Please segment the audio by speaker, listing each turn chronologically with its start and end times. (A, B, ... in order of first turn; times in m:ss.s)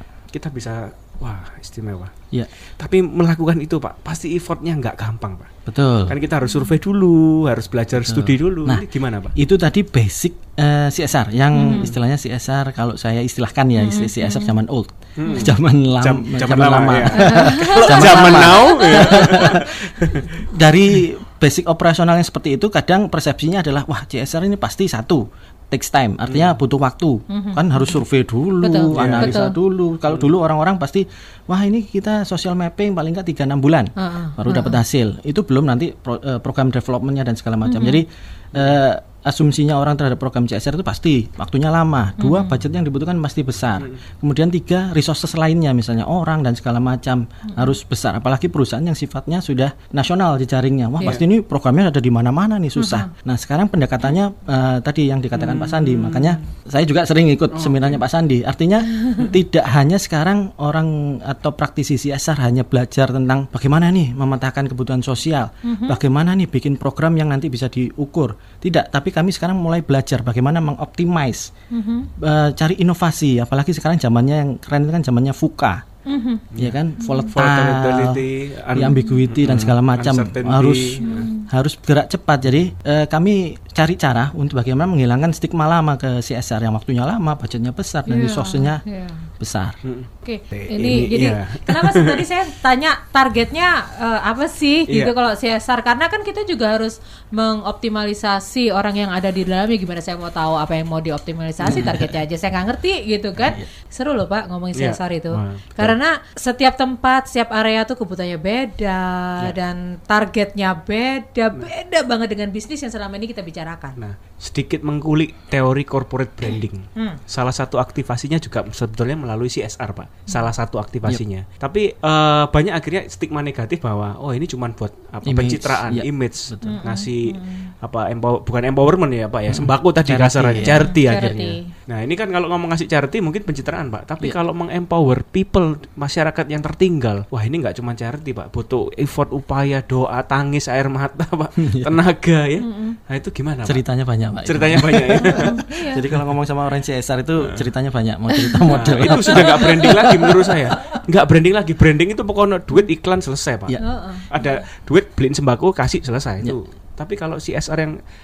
0:00.3-0:02.1 A
0:02.8-0:05.5 A
0:05.7-0:06.2 B
0:06.1-0:09.3 A
0:06.4-0:06.7 C
0:08.1-0:08.8 B
0:09.4-0:19.8 B
0:11.6-0:11.9 C
0:11.7-0:11.9 A
0:13.8-0:14.6 C
0:15.2-0:20.4 A
0:15.2-0:15.5 C
0:17.1-0:19.6 C
0:20.4-1:11.5 B
0:27.3-0:28.0 C
0:28.6-0:29.6 C
0:28.9-0:29.4 A
0:34.0-0:34.8 C
0:37.6-0:38.0 C
0:42.2-0:42.5 C
0:52.8-0:53.1 C
0:55.3-0:56.4 A
0:57.5-0:58.0 A
1:05.6-1:06.0 C
1:11.7-1:12.1 C
1:12.2-1:15.8 B
1:16.1-1:16.4 C
1:16.6-1:28.8 B
1:17.0-1:17.3 C
1:17.3-1:21.3 A
1:18.8-1:19.2 C
1:21.0-1:21.5 C
1:28.1-1:29.3 C
1:29.4-1:29.8 B
1:29.8-1:32.3 A
1:30.2-1:54.0 C
1:34.9-1:35.1 A
1:41.6-1:42.1 B
1:44.8-1:45.9 A
1:54.0-2:23.8 A
2:05.2-2:06.8 B
2:06.6-2:07.7 C
2:09.5-2:10.9 B
2:10.6-2:11.7 C
2:21.6-2:21.9 B
2:22.6-2:23.0 C
2:23.6-2:30.6 B
2:24.4-2:25.6 A
2:25.2-2:26.0 C
2:28.3-2:30.0 C
2:28.7-2:38.0 A
2:33.8-2:34.6 C